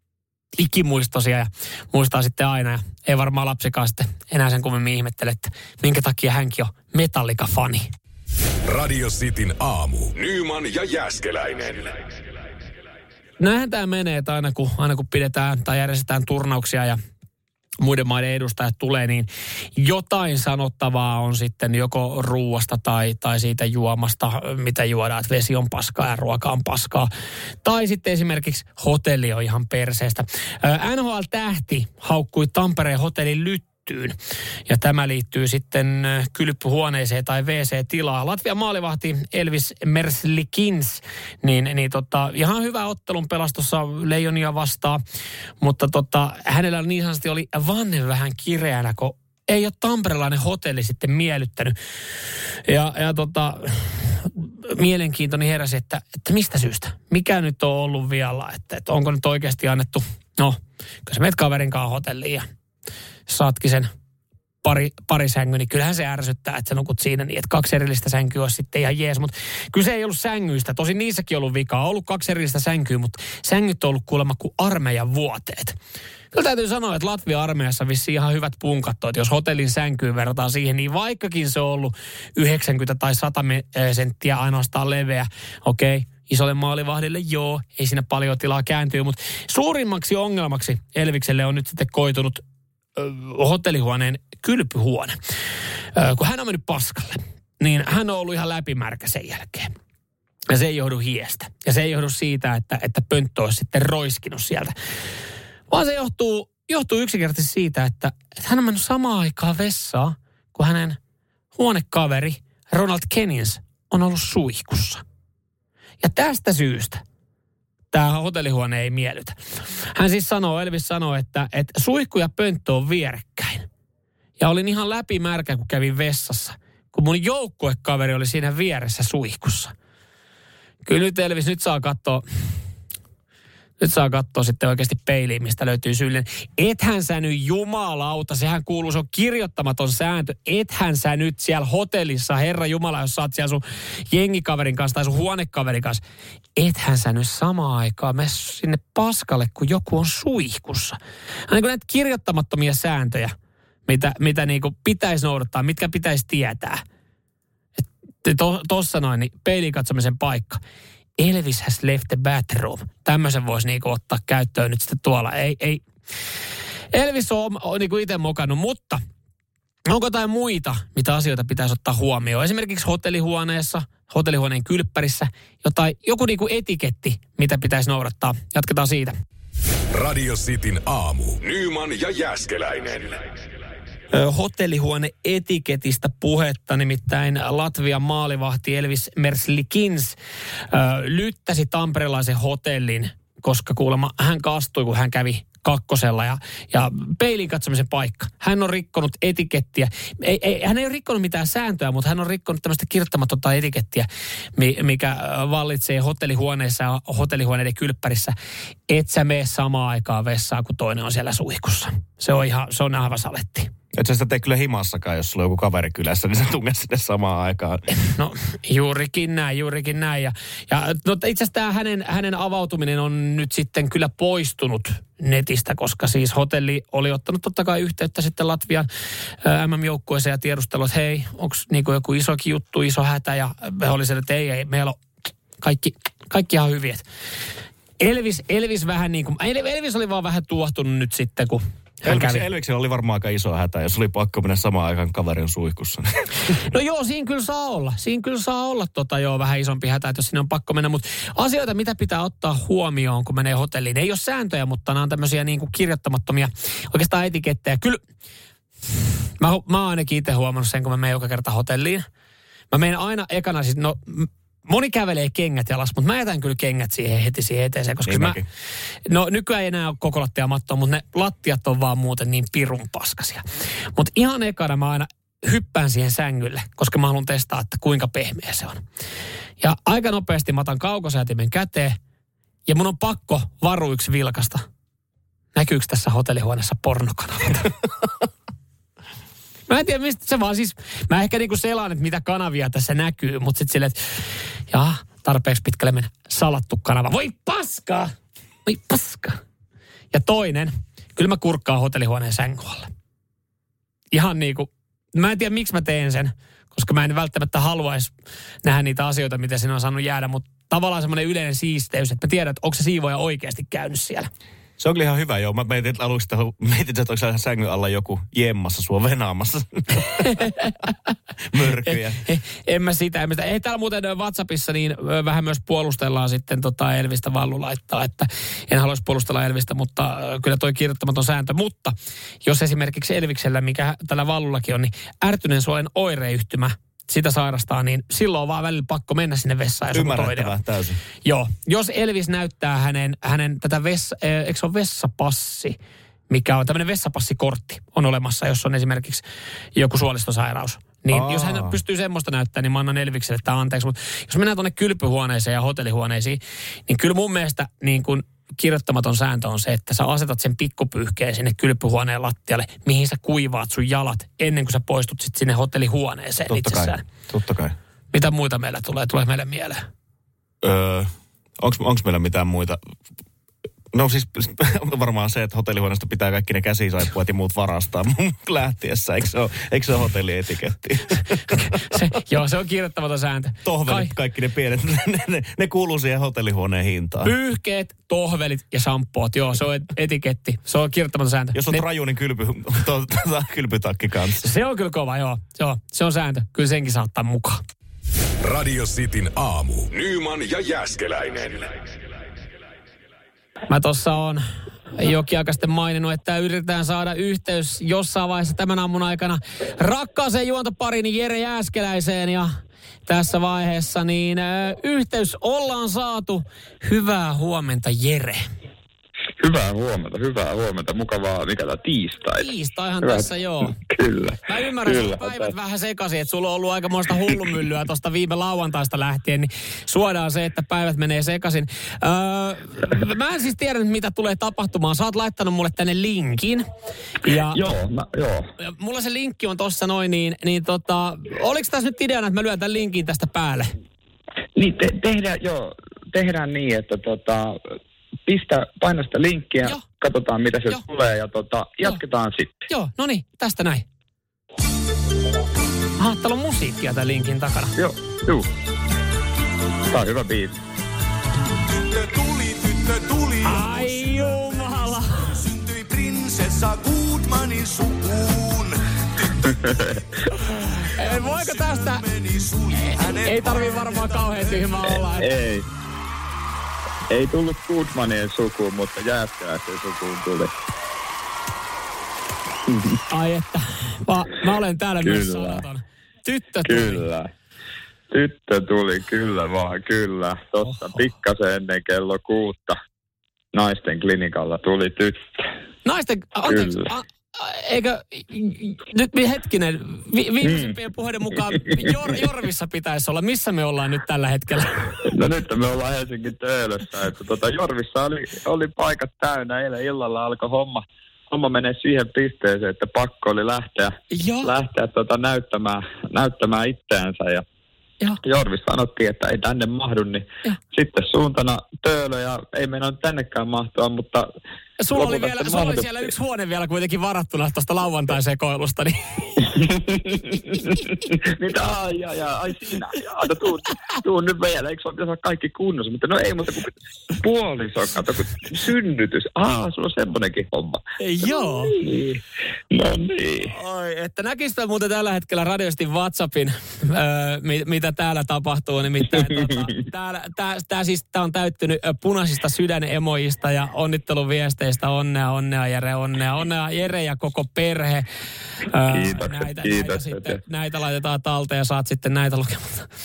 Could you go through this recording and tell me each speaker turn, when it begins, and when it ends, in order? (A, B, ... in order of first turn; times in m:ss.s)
0:00.6-0:07.9 A
0:08.7-0:11.9 B
0:13.4-0:17.0 A
0:17.8-0:27.1 A
0:27.6-0:34.2 A
0:34.7-0:45.0 A
0:45.6-0:51.8 A
0:52.7-1:02.5 A
1:03.3-1:03.9 A
1:04.6-1:15.8 A
1:16.3-1:32.4 A
1:33.0-1:35.2 A
1:36.0-1:39.7 A
1:40.5-1:44.7 A
1:45.7-1:51.0 A
1:51.6-1:55.0 A
1:56.0-1:57.0 A
1:57.9-1:59.4 A
2:00.0-2:03.7 A
2:04.4-2:09.7 A
2:10.8-2:12.2 A
2:13.8-2:26.0 A
2:26.6-2:31.0 A
2:31.5-2:33.4 A
2:33.9-2:36.8 A
2:37.8-2:40.6 A
2:41.2-2:45.8 A
2:46.9-2:49.0 A
2:49.9-2:59.2 A
2:59.9-3:03.2 B
3:04.1-3:10.2 A
3:10.7-3:28.4 A
3:28.9-3:33.7 A
3:33.9-3:37.8 C
3:38.0-3:48.9 A
3:49.4-3:55.0 A
3:55.6-3:57.0 A
3:58.0-4:02.4 A
4:02.0-4:06.3 C
4:06.5-4:18.0 A
4:19.4-4:22.1 A
4:22.7-4:28.4 A
4:28.1-4:28.4 C
4:29.1-4:33.4 A
4:34.0-4:38.8 A
4:39.6-4:42.0 A
4:42.7-4:44.6 A
4:45.6-4:47.7 A
4:49.7-4:54.0 A
4:54.7-4:58.1 A
4:58.7-4:59.4 A
5:00.1-5:02.9 A
5:04.1-5:08.1 A
5:08.6-5:14.3 A
5:14.8-5:20.5 C
5:20.2-5:20.7 A
5:21.5-5:22.2 C
5:21.9-5:40.5 A
5:39.9-5:41.0 C
5:41.2-5:45.8 A
5:46.3-5:49.2 A
5:49.8-6:07.0 A
5:51.1-5:51.8 C
6:06.5-6:07.8 C
6:08.1-6:09.9 A
6:10.6-6:12.8 C
6:13.9-6:22.1 C
6:21.5-6:24.1 A
6:23.6-6:27.3 C
6:27.2-6:31.8 A
6:31.5-6:34.5 C
6:34.4-6:37.6 A
6:38.4-6:41.7 B
6:43.7-6:52.5 A
6:53.1-6:58.4 A
6:59.4-7:02.5 D
7:02.4-7:03.8 A
7:03.8-7:05.5 D
7:04.5-7:16.7 A
7:17.2-7:17.6 A
7:17.5-7:18.5 D
7:18.6-7:23.7 A
7:24.6-7:27.6 D
7:28.3-7:32.5 D
7:32.7-7:33.9 A
7:36.0-7:37.8 A
7:37.8-7:38.5 D
7:39.9-7:40.6 D
7:41.8-7:49.5 E
7:43.4-7:45.4 A
7:49.4-7:50.0 D
7:50.5-7:52.0 A
7:50.7-7:55.2 E
7:53.0-7:55.3 A
7:55.2-7:55.6 D
7:57.1-8:00.5 D
8:02.7-8:03.0 D
8:03.1-8:07.0 A
8:05.0-8:05.6 D
8:06.7-8:07.3 D
8:08.1-8:12.8 D
8:10.6-8:11.0 A
8:13.5-8:15.2 D
8:15.8-8:25.1 A
8:16.5-8:16.8 D
8:20.4-8:20.7 D
8:25.1-8:37.4 D
8:34.1-8:34.5 A
8:38.2-8:44.3 D
8:44.8-8:49.0 A
8:45.0-8:45.9 D
8:49.4-9:03.5 D
8:50.5-8:50.8 A
9:01.0-9:01.8 A
9:03.4-9:18.1 A
9:09.2-9:09.7 D
9:18.7-9:22.9 A
9:18.8-9:20.4 D